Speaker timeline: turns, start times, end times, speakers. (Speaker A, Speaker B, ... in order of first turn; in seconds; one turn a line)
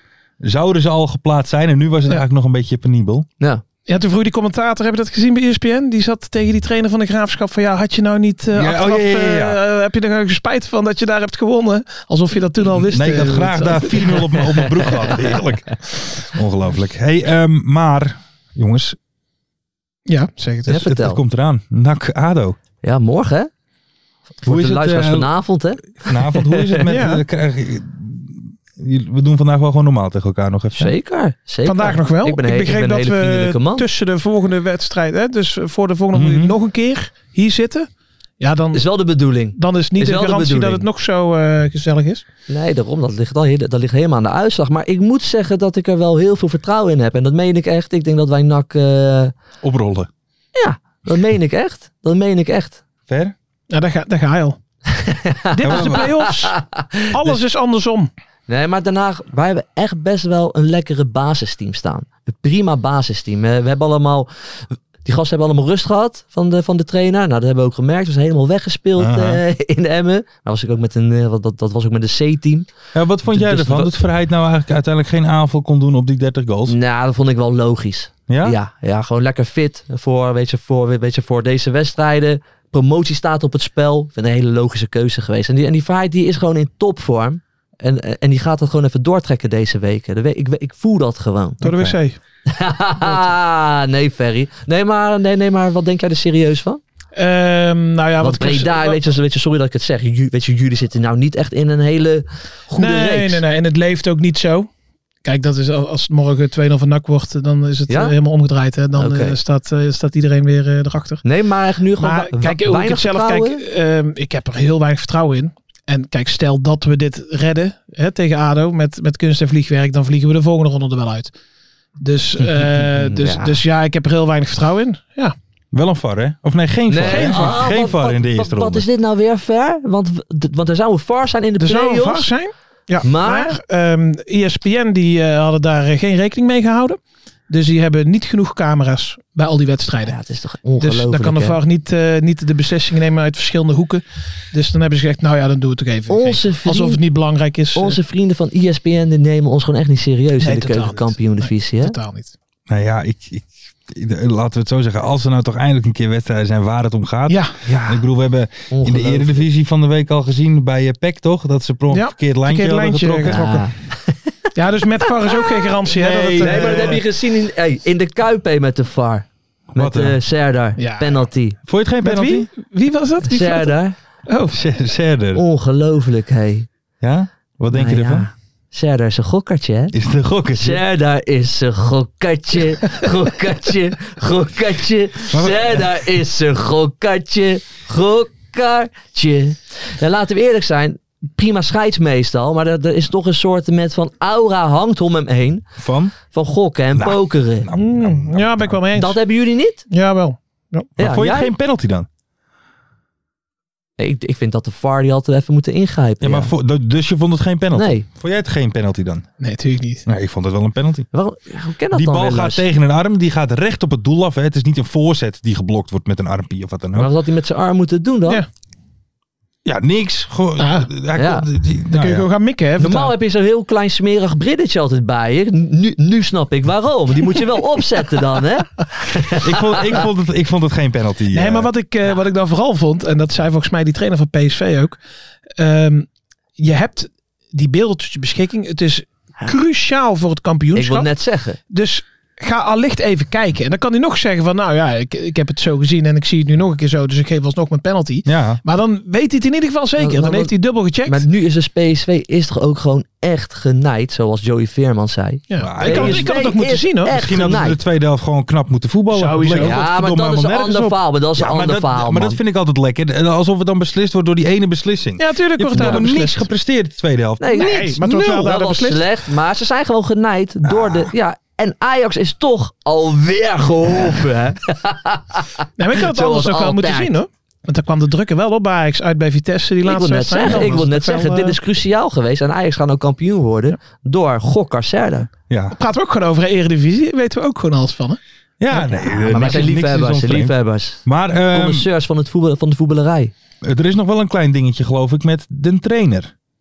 Speaker A: 0.4-3.3
Speaker B: 3.9-14.2
Speaker A: 8.5-9.6
Speaker A: 12.7-19.0
Speaker C: 14.8-15.1
Speaker B: 20.1-20.8
Speaker A: 20.7-22.6
Speaker C: 20.7-21.2
Speaker C: 22.8-23.5
Speaker C: 24.4-26.9
Speaker A: 24.4-25.3
Speaker A: 25.8-30.9
Speaker B: 26.9-27.2
Speaker C: 30.7-33.9
Speaker B: 31.6-38.9
Speaker A: 36.1-36.6
Speaker C: 38.7-40.8
Speaker B: 39.5-42.2
Speaker C: 42.5-49.3
Speaker A: 49.6-50.1
Speaker C: 50.5-52.8
Speaker A: 53.1-53.3
Speaker B: 53.7-54.6
Speaker C: 54.9-57.1
Speaker B: 55.5-56.5
Speaker A: 55.6-56.1
Speaker B: 57.1-58.1
Speaker C: 58.5-72.7
Speaker A: 69.0-69.4
Speaker A: 72.9-76.8
Speaker C: 73.3-73.9
Speaker C: 76.7-91.6
Speaker A: 78.3-78.6
Speaker A: 91.6-92.0
Speaker B: 91.6-92.2
Speaker C: 92.5-96.8
Speaker B: 97.1-99.0
Speaker C: 98.2-103.4
Speaker B: 102.7-104.7
Speaker B: 105.2-111.2
Speaker C: 107.9-108.1
Speaker C: 108.9-109.4
Speaker C: 111.2-113.6
Speaker B: 112.0-121.3
Speaker B: 122.0-125.3
Speaker C: 122.4-123.6
Speaker A: 125.7-128.8
Speaker C: 126.9-132.3
Speaker B: 127.0-127.6
Speaker B: 131.6-140.1
Speaker C: 133.0-133.5
Speaker C: 140.0-141.6
Speaker B: 140.8-148.0
Speaker C: 146.1-147.0
Speaker C: 147.7-151.9
Speaker B: 150.4-152.3
Speaker A: 152.7-163.5
Speaker B: 157.3-157.6
Speaker C: 157.6-158.0
Speaker C: 158.7-159.5
Speaker B: 161.9-163.7
Speaker C: 163.2-164.4
Speaker B: 164.5-167.0
Speaker C: 165.1-165.5
Speaker A: 165.9-167.0
Speaker C: 166.4-171.6
Speaker A: 169.7-170.2
Speaker B: 170.8-171.3
Speaker A: 171.7-172.5
Speaker B: 172.0-173.8
Speaker C: 173.2-173.9
Speaker B: 174.3-174.6
Speaker A: 174.5-175.4
Speaker C: 175.3-176.7
Speaker A: 177.0-178.3
Speaker C: 177.7-179.9
Speaker A: 179.9-180.8
Speaker C: 180.5-195.7
Speaker A: 185.3-185.9
Speaker A: 195.8-196.1
Speaker C: 196.3-197.7
Speaker A: 196.9-198.8
Speaker B: 197.7-199.2
Speaker C: 198.9-199.8
Speaker B: 199.9-200.9
Speaker C: 201.0-201.5
Speaker A: 201.0-202.1
Speaker C: 204.0-206.5
Speaker A: 206.2-209.2
Speaker C: 207.7-208.1
Speaker B: 209.4-210.0
Speaker A: 210.1-211.1
Speaker C: 211.1-212.6
Speaker A: 211.9-217.1
Speaker C: 216.9-218.4
Speaker A: 219.6-222.3
Speaker B: 220.6-220.9
Speaker C: 221.1-221.4
Speaker B: 221.9-223.1
Speaker C: 222.8-230.0
Speaker A: 229.4-231.7
Speaker B: 231.3-235.0
Speaker B: 235.6-236.1
Speaker B: 236.6-241.1
Speaker C: 240.7-241.6
Speaker B: 241.7-251.2
Speaker A: 248.2-248.6
Speaker C: 250.0-250.5
Speaker C: 251.0-257.8
Speaker B: 255.5-257.5
Speaker A: 255.6-256.6
Speaker A: 257.1-267.9
Speaker B: 259.1-259.8
Speaker C: 259.6-262.4
Speaker B: 265.2-266.4
Speaker C: 265.7-266.0
Speaker C: 267.4-277.2
Speaker B: 267.5-269.0
Speaker A: 270.6-271.1
Speaker B: 275.8-281.6
Speaker C: 279.8-285.3
Speaker A: 280.5-280.7
Speaker A: 285.5-285.8
Speaker B: 285.7-288.2
Speaker A: 288.6-291.9
Speaker B: 288.7-289.7
Speaker C: 289.2-293.3
Speaker A: 293.6-296.3